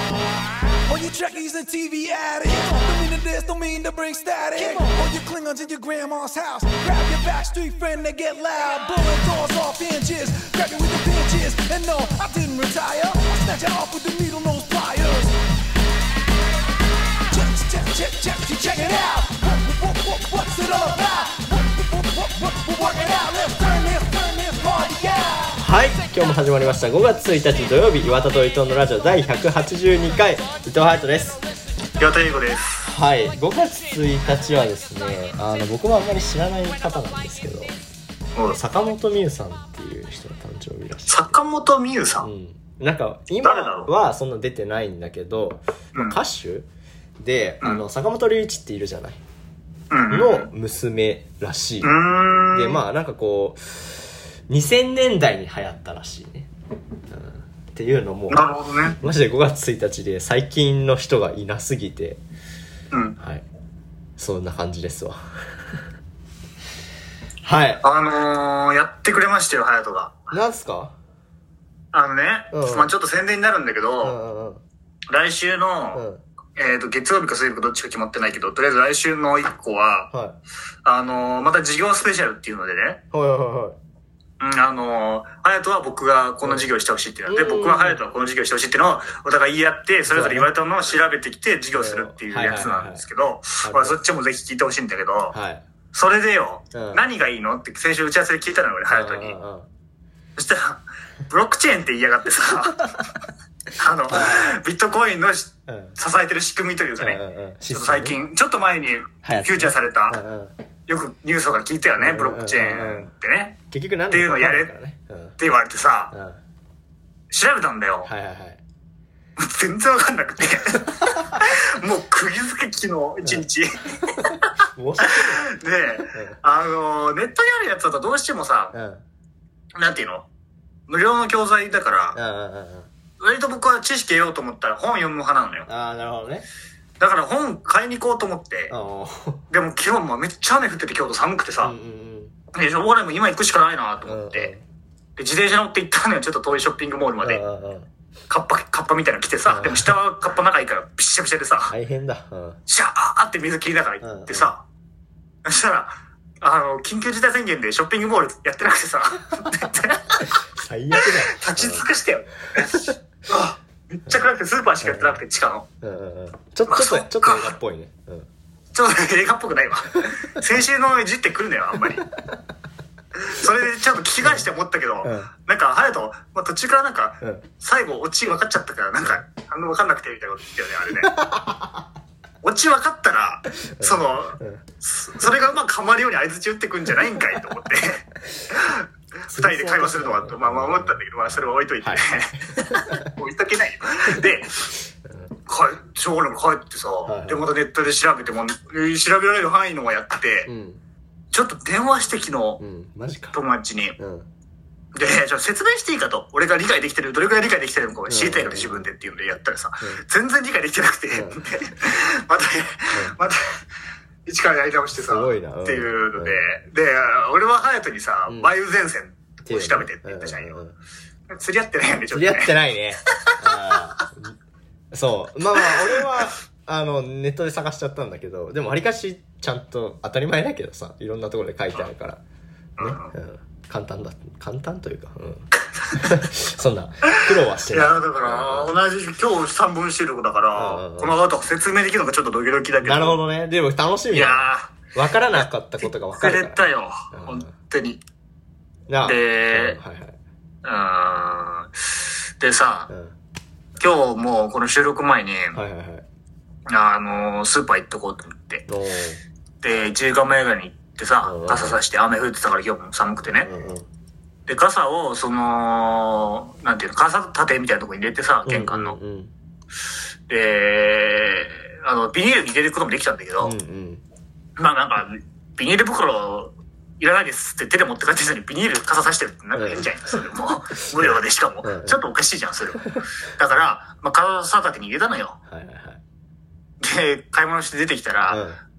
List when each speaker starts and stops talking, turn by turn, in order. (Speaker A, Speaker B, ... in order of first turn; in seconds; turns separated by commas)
Speaker A: 0.8-15.4, Speaker A: 17.3-25.6, Speaker B: 25.6-31.4, Speaker C: 32.0-32.9, Speaker B: 32.9-37.8, Speaker B: 38.5-41.3, Speaker C: 41.1-42.3, Speaker B: 42.2-46.7, Speaker C: 43.4-43.9, Speaker B: 47.2-49.2, Speaker C: 49.9-50.5, Speaker B: 50.1-51.9, Speaker C: 51.8-52.8, Speaker B: 52.5-56.5, Speaker B: 57.1-58.4, Speaker C: 58.3-59.0, Speaker B: 59.0-62.2, Speaker B: 63.2-63.4, Speaker B: 64.2-65.2, Speaker B: 67.4-67.8, Speaker C: 67.8-70.3, Speaker B: 70.3-70.9, Speaker C: 71.9-74.2, Speaker B: 72.5-72.9, Speaker B: 74.0-74.6, Speaker C: 75.1-76.0, Speaker B: 76.0-76.2, Speaker C: 76.6-80.1, Speaker B: 80.1-80.4, Speaker C: 80.8-83.0, Speaker B: 83.1-83.8, Speaker C: 84.4-95.4, Speaker B: 87.3-88.0, Speaker B: 90.1-90.5, Speaker B: 91.7-93.0, Speaker B: 93.6-94.0, Speaker B: 95.3-95.6, Speaker C: 95.9-99.4, Speaker B: 96.7-97.0, Speaker B: 98.9-99.7, Speaker C: 100.4-102.9, Speaker C: 103.8-110.2, Speaker B: 104.1-104.6, Speaker B: 105.7-106.0, Speaker B: 107.0-108.2, Speaker B: 109.2-110.5, Speaker C: 110.9-113.6, Speaker B: 112.0-113.1, Speaker B: 113.7-115.4, Speaker C: 114.1-114.7, Speaker C: 115.4-116.1, Speaker B: 116.1-116.4, Speaker C: 117.3-118.1, Speaker B: 118.0-118.6, Speaker C: 119.4-128.8, Speaker B: 124.0-125.4, Speaker B: 126.1-126.4, Speaker B: 128.7-129.0, Speaker C: 129.8-130.3, Speaker C: 130.9-132.2, Speaker B: 132.2-132.9, Speaker C: 133.2-135.7, Speaker B: 135.7-136.5, Speaker C: 137.0-138.7, Speaker B: 138.7-139.4, Speaker C: 139.5-141.8, Speaker B: 141.6-142.3, Speaker C: 142.5-144.5, Speaker B: 144.1-144.6, Speaker C: 145.2-147.4, Speaker B: 147.2-147.9, Speaker C: 148.3-151.8, Speaker B: 149.5-149.9, Speaker B: 151.7-152.6, Speaker C: 152.7-154.6, Speaker B: 154.0-154.5, Speaker C: 155.4-160.4, Speaker B: 160.5-161.8, Speaker C: 160.9-165.7, Speaker B: 164.8-165.2, Speaker B: 165.8-168.3, Speaker C: 166.7-167.6, Speaker C: 168.7-172.1, Speaker C: 173.2-181.2, Speaker B: 174.2-174.5, Speaker B: 175.0-175.3, Speaker B: 181.1-181.8, Speaker C: 182.4-194.7, Speaker B: 183.8-184.6, Speaker B: 189.3-191.3, Speaker B: 192.6-193.1, Speaker C: 195.5-200.5, Speaker B: 197.1-197.5, Speaker B: 200.5-200.8, Speaker C: 201.3-202.6, Speaker B: 202.6-203.4, Speaker C: 203.3-204.0, Speaker B: 204.0-204.3, Speaker C: 204.9-213.4, Speaker B: 208.1-208.9, Speaker B: 211.1-211.4, Speaker C: 214.3-220.6, Speaker B: 214.9-216.4, Speaker B: 219.4-220.8, Speaker C: 221.3-222.6, Speaker B: 222.1-224.4, Speaker C: 223.2-224.1, Speaker B: 224.9-232.2, Speaker C: 225.6-226.1, Speaker C: 232.8-233.1, Speaker B: 232.8-235.5, Speaker C: 235.8-236.2, Speaker B: 236.0-238.7, Speaker C: 237.1-243.2, Speaker B: 240.6-241.1, Speaker B: 242.8-247.5, Speaker C: 244.1-244.8, Speaker C: 245.8-248.0, Speaker B: 248.9-250.2, Speaker C: 249.0-249.8, Speaker C: 250.6-252.9, Speaker B: 252.9-253.2, Speaker C: 253.8-255.6, Speaker B: 255.5-256.0, Speaker C: 256.7-258.6, Speaker B: 258.7-259.2, Speaker C: 259.6-263.5, Speaker B: 261.2-261.8, Speaker B: 263.4-263.9, Speaker C: 264.5-269.0, Speaker B: 268.5-269.3, Speaker C: 270.3-273.6, Speaker B: 273.4-274.0, Speaker C: 274.6-285.4, Speaker B: 279.6-279.9, Speaker B: 280.9-282.0, Speaker B: 285.5-286.0, Speaker C: 286.8-288.4, Speaker B: 288.3-288.6